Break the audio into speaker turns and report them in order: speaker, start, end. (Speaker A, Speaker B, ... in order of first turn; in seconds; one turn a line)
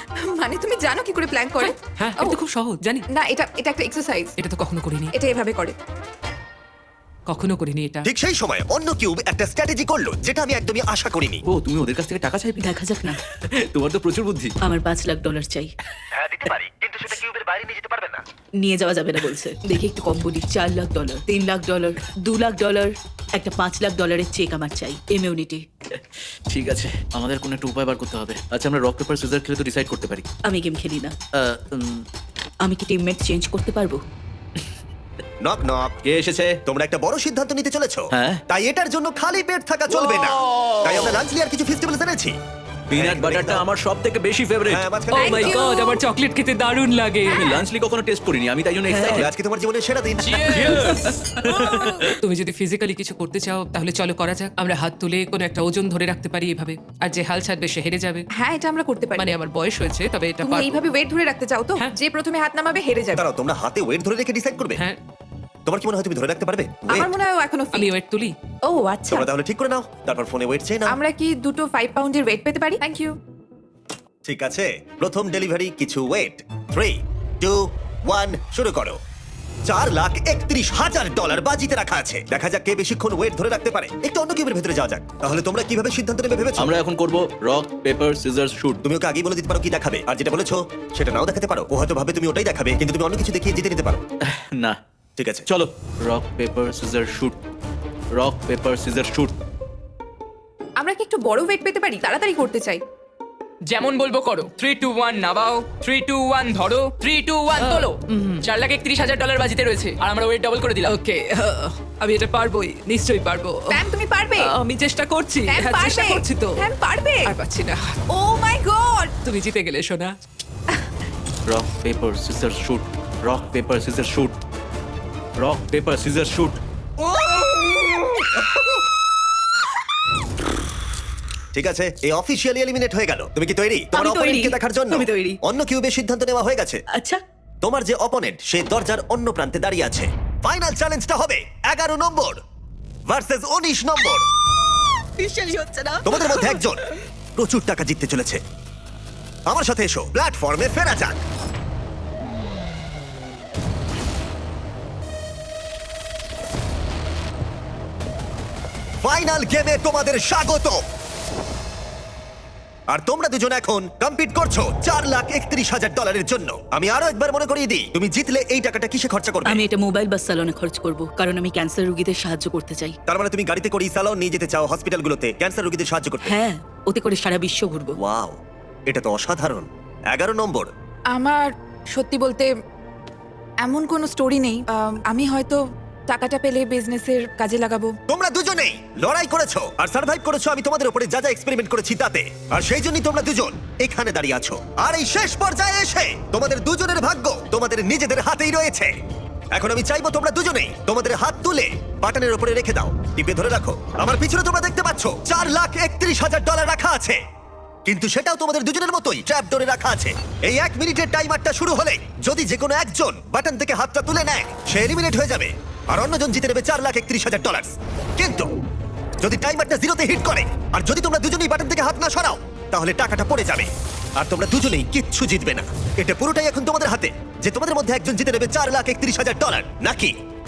Speaker A: 0.2-2.4
Speaker B: 1.6-3.0
Speaker A: 3.1-4.3
Speaker B: 4.4-5.1
Speaker A: 5.1-5.8
Speaker B: 7.3-8.1
Speaker C: 8.0-11.4
Speaker D: 11.5-12.6
Speaker E: 12.6-13.2
Speaker D: 13.2-14.5
Speaker E: 14.6-15.7
Speaker C: 16.1-18.2
Speaker E: 18.6-25.6
Speaker D: 25.9-30.2
Speaker E: 30.4-31.1
Speaker D: 31.4-32.0
Speaker E: 32.6-34.0
Speaker C: 35.4-35.9
Speaker D: 36.0-36.6
Speaker C: 36.6-42.4
Speaker D: 38.1-38.4
Speaker D: 40.1-41.2
Speaker D: 42.9-44.8
Speaker C: 42.9-43.6
Speaker C: 44.7-45.5
Speaker B: 45.1-47.6
Speaker A: 45.2-46.0
Speaker D: 47.3-49.3
Speaker E: 48.9-49.3
Speaker C: 49.0-50.8
Speaker B: 50.4-50.7
Speaker D: 50.5-52.2
Speaker F: 50.6-51.0
Speaker E: 50.9-51.2
Speaker A: 51.6-51.9
Speaker B: 52.2-58.2
Speaker A: 58.4-59.3
Speaker B: 59.2-60.8
Speaker A: 60.4-63.3
Speaker C: 63.2-64.8
Speaker C: 65.7-67.1
Speaker A: 66.9-67.9
Speaker B: 67.7-68.3
Speaker A: 68.7-69.3
Speaker C: 69.1-71.0
Speaker A: 70.9-73.2
Speaker C: 74.2-79.0
Speaker C: 79.7-86.7
Speaker D: 86.6-88.8
Speaker C: 88.8-94.0
Speaker D: 94.2-94.8
Speaker C: 95.2-95.5
Speaker D: 95.5-97.4
Speaker D: 98.2-99.3
Speaker A: 100.8-102.8
Speaker F: 103.7-111.0
Speaker B: 107.6-108.4
Speaker B: 110.8-113.8
Speaker A: 113.7-114.5
Speaker B: 114.4-116.7
Speaker A: 115.5-117.3
Speaker B: 117.2-118.0
Speaker A: 118.1-119.1
Speaker B: 119.2-120.1
Speaker D: 121.5-124.3
Speaker D: 125.4-126.6
Speaker C: 131.5-136.8
Speaker E: 133.9-135.4
Speaker E: 136.9-137.2
Speaker C: 137.6-142.4
Speaker C: 143.1-144.2
Speaker E: 145.2-146.7
Speaker C: 146.0-146.8
Speaker C: 147.4-148.4
Speaker C: 149.5-151.2
Speaker C: 159.0-160.8
Speaker C: 162.9-169.6
Speaker E: 169.4-173.0
Speaker C: 173.1-176.3
Speaker E: 176.2-177.9
Speaker C: 178.0-180.7
Speaker A: 181.1-182.5
Speaker A: 183.6-187.9
Speaker C: 188.1-198.9
Speaker C: 199.5-207.2
Speaker C: 207.8-218.5
Speaker C: 219.2-230.1